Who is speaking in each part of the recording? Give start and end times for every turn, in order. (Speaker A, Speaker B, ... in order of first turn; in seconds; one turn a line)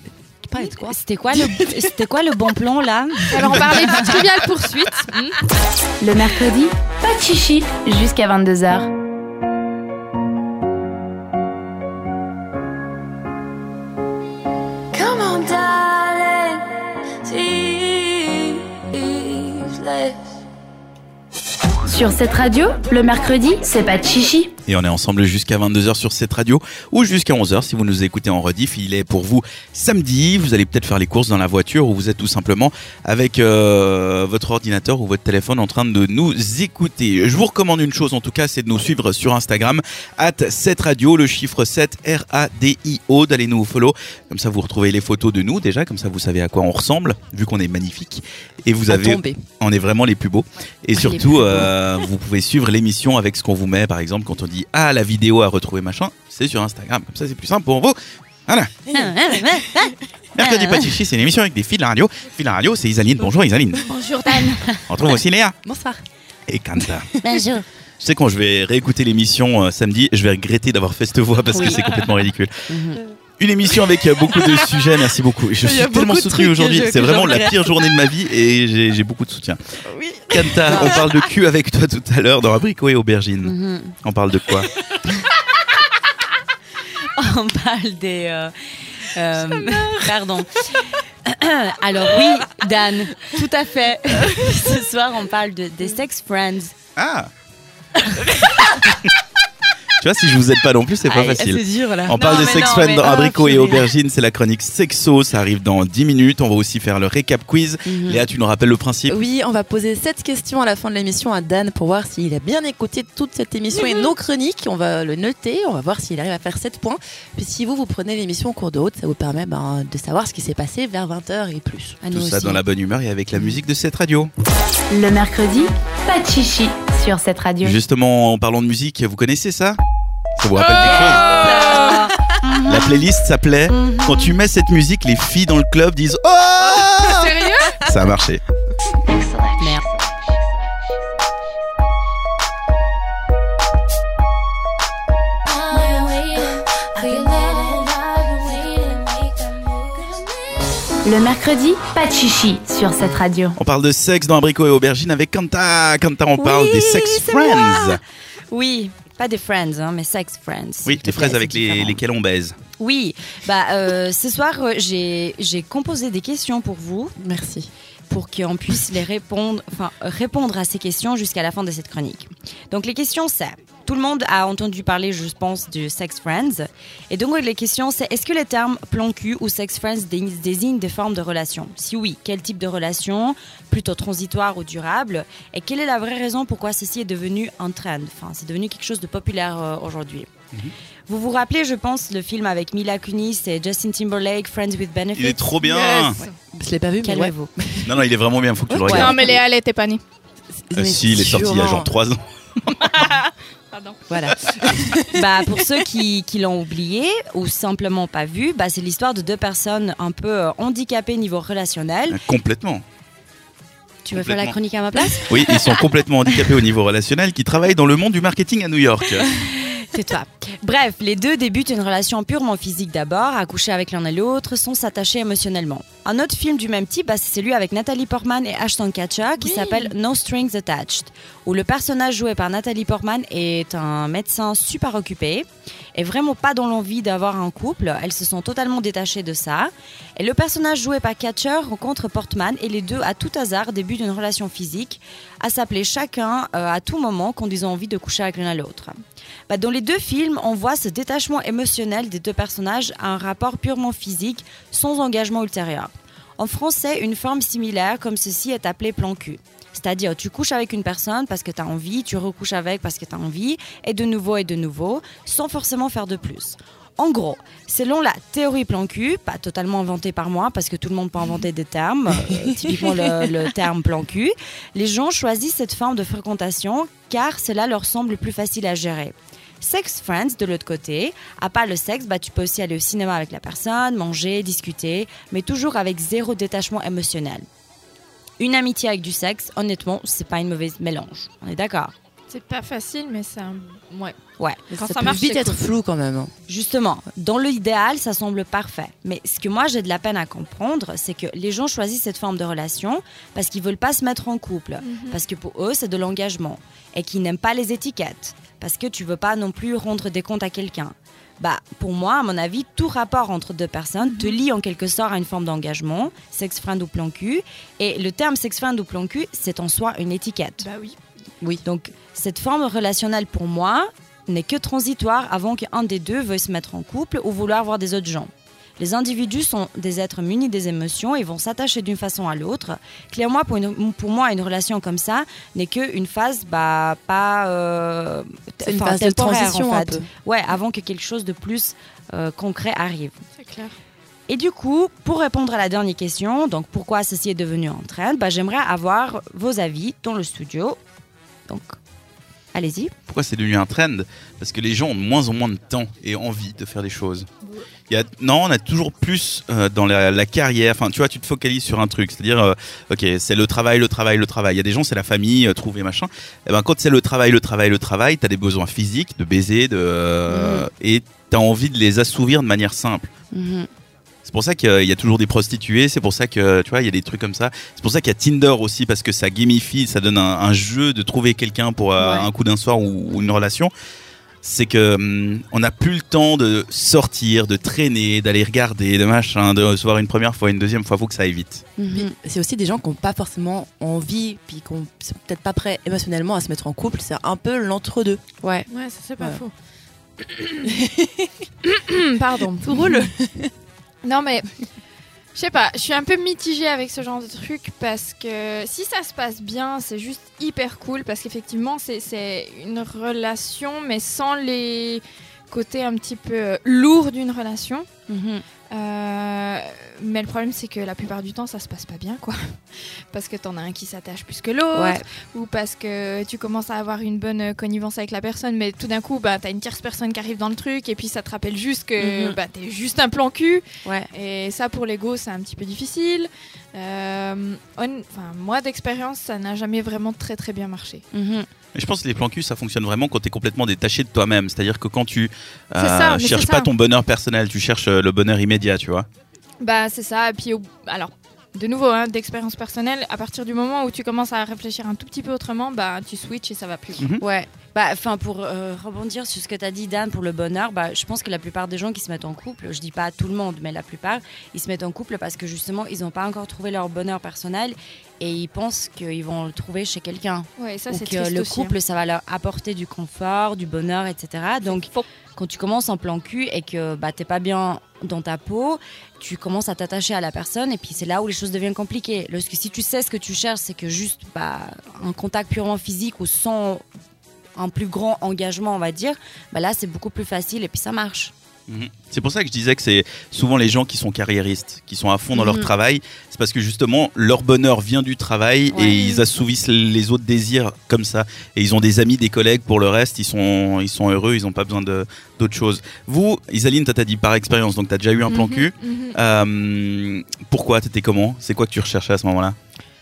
Speaker A: 0.4-1.9
Speaker B: 0.6-4.1
Speaker C: 3.3-5.4
Speaker D: 6.0-8.9
Speaker E: 14.9-20.2
Speaker D: 21.9-24.5
Speaker F: 24.7-58.7
Speaker A: 48.9-49.5
Speaker A: 51.0-51.7
Speaker A: 58.9-59.9
Speaker B: 58.9-60.9
Speaker F: 60.4-63.9
Speaker C: 63.9-64.7
Speaker F: 64.9-65.6
Speaker A: 65.6-66.0
Speaker F: 66.5-67.1
Speaker A: 66.8-67.5
Speaker B: 67.2-67.7
Speaker F: 68.0-72.5
Speaker B: 71.5-71.8
Speaker A: 71.6-71.8
Speaker B: 72.7-73.0
Speaker F: 73.4-79.6
Speaker A: 74.2-77.9
Speaker A: 79.8-81.3
Speaker F: 80.3-84.7
Speaker B: 83.4-84.0
Speaker B: 87.2-96.7
Speaker F: 97.0-97.3
Speaker F: 100.0-109.1
Speaker A: 101.1-103.8
Speaker B: 102.2-103.6
Speaker B: 107.9-108.2
Speaker A: 109.1-122.6
Speaker B: 122.1-122.6
Speaker F: 122.1-124.3
Speaker D: 124.9-127.8
Speaker F: 127.6-129.8
Speaker F: 130.4-131.5
Speaker C: 130.6-132.1
Speaker B: 130.9-132.9
Speaker A: 131.7-132.0
Speaker F: 132.6-138.4
Speaker B: 133.7-134.3
Speaker C: 137.0-137.8
Speaker E: 139.1-139.8
Speaker B: 139.6-139.8
Speaker E: 145.5-150.3
Speaker D: 151.1-153.6
Speaker F: 153.6-158.0
Speaker B: 156.4-157.9
Speaker B: 158.5-162.0
Speaker F: 160.8-162.6
Speaker B: 162.8-167.2
Speaker A: 167.2-167.7
Speaker B: 168.1-190.3
Speaker B: 191.1-195.6
Speaker F: 195.2-196.2
Speaker C: 195.6-196.3
Speaker A: 196.5-198.0
Speaker B: 197.0-197.5
Speaker F: 197.8-199.3
Speaker A: 198.7-199.4
Speaker C: 198.9-200.0
Speaker A: 200.6-201.9
Speaker F: 200.8-202.9
Speaker C: 202.8-204.0
Speaker A: 204.1-205.2
Speaker B: 205.1-212.2
Speaker F: 212.1-212.8
Speaker B: 214.1-215.8
Speaker F: 214.1-214.6
Speaker F: 215.2-219.3
Speaker B: 219.3-249.0
Speaker C: 229.4-229.9
Speaker B: 249.5-287.5
Speaker A: 272.3-273.5
Speaker B: 288.4-291.9
Speaker C: 292.3-294.2
Speaker A: 294.7-296.3
Speaker C: 294.8-295.6
Speaker B: 296.5-320.7
Speaker C: 304.8-305.2
Speaker C: 314.0-314.4
Speaker C: 320.6-321.0
Speaker B: 321.6-343.2
Speaker A: 338.6-340.1
Speaker C: 343.4-343.8
Speaker B: 344.3-350.8
Speaker B: 351.5-351.8
Speaker B: 352.5-352.9
Speaker F: 353.1-357.3
Speaker F: 357.9-373.1
Speaker B: 370.3-370.6
Speaker B: 373.4-373.6
Speaker F: 374.2-383.7
Speaker F: 384.4-391.7
Speaker A: 391.8-398.7
Speaker C: 398.7-399.5
Speaker A: 400.6-401.4
Speaker C: 401.6-403.1
Speaker A: 402.6-403.5
Speaker C: 404.0-404.6
Speaker C: 405.4-417.9
Speaker B: 418.1-418.4
Speaker C: 418.7-441.0
Speaker B: 424.7-425.0
Speaker B: 432.0-432.4
Speaker B: 441.1-441.5
Speaker F: 441.8-449.1
Speaker C: 445.8-446.7
Speaker C: 449.6-457.1
Speaker F: 457.0-457.2
Speaker B: 457.2-486.8
Speaker C: 470.6-471.8
Speaker C: 474.6-475.1
Speaker B: 487.6-491.3
Speaker F: 491.7-512.6
Speaker B: 495.4-495.7
Speaker B: 498.7-499.1
Speaker C: 498.8-499.2
Speaker C: 508.3-509.2